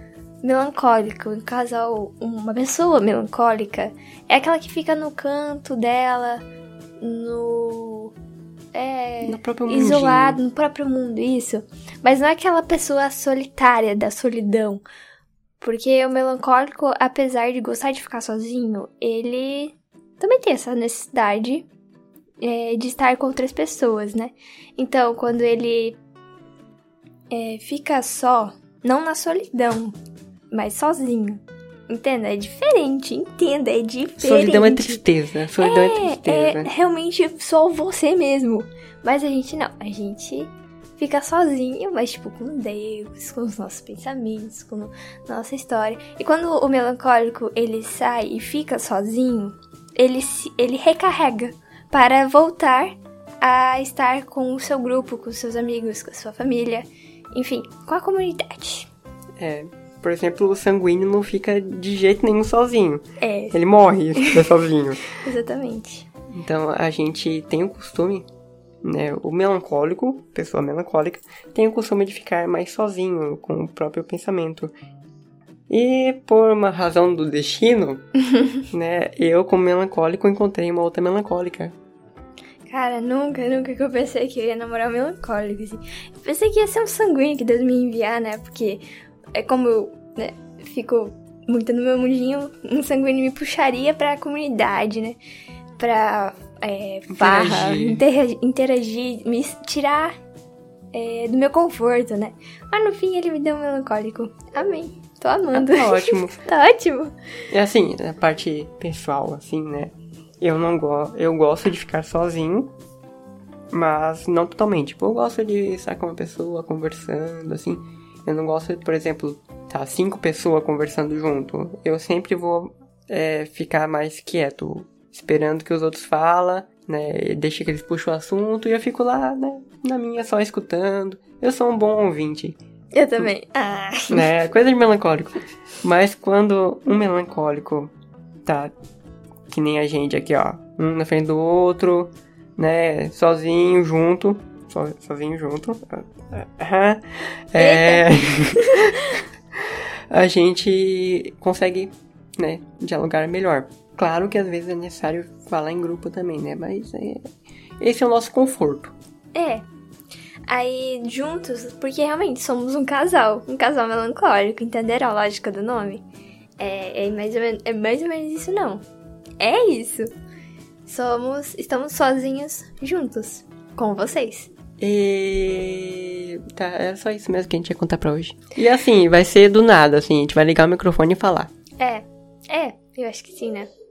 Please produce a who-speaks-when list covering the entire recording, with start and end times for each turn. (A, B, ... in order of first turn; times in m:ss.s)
0:00.4-0:06.4 A
0:07.0-0:08.1 A
0:08.7-0:14.8 A
0:09.2-0:10.4 B
0:15.6-0:21.7 A
0:22.4-0:26.0 A
0:27.3-0:30.0 A
0:30.5-0:35.0 A
0:34.2-0:36.7 B
0:35.6-0:58.9 A
0:59.4-1:05.0 B
1:03.2-1:03.6 A
1:04.1-1:04.5 A
1:05.1-1:06.1 A
1:06.3-1:08.3 B
1:08.8-1:14.7 B
1:15.7-1:18.1 B
1:18.7-1:21.7 B
1:22.6-1:28.8 A
1:29.3-1:35.2 A
1:35.8-1:40.1 A
1:37.1-1:38.0 B
1:40.9-1:47.1 A
1:45.5-1:46.4 B
1:47.5-1:52.7 B
1:53.7-2:12.6 B
2:12.9-2:14.3 A
2:14.1-2:17.9 B
2:18.4-2:18.7 B
2:19.5-2:29.0 B
2:27.6-2:29.0 A
2:30.1-2:37.2 B
2:37.8-2:38.9 B
2:39.3-2:39.7 A
2:40.5-2:46.0 A
2:46.6-2:48.8 A
2:49.4-2:50.1 A
2:50.8-2:54.5 A
2:54.8-3:01.5 B
3:01.8-3:03.7 A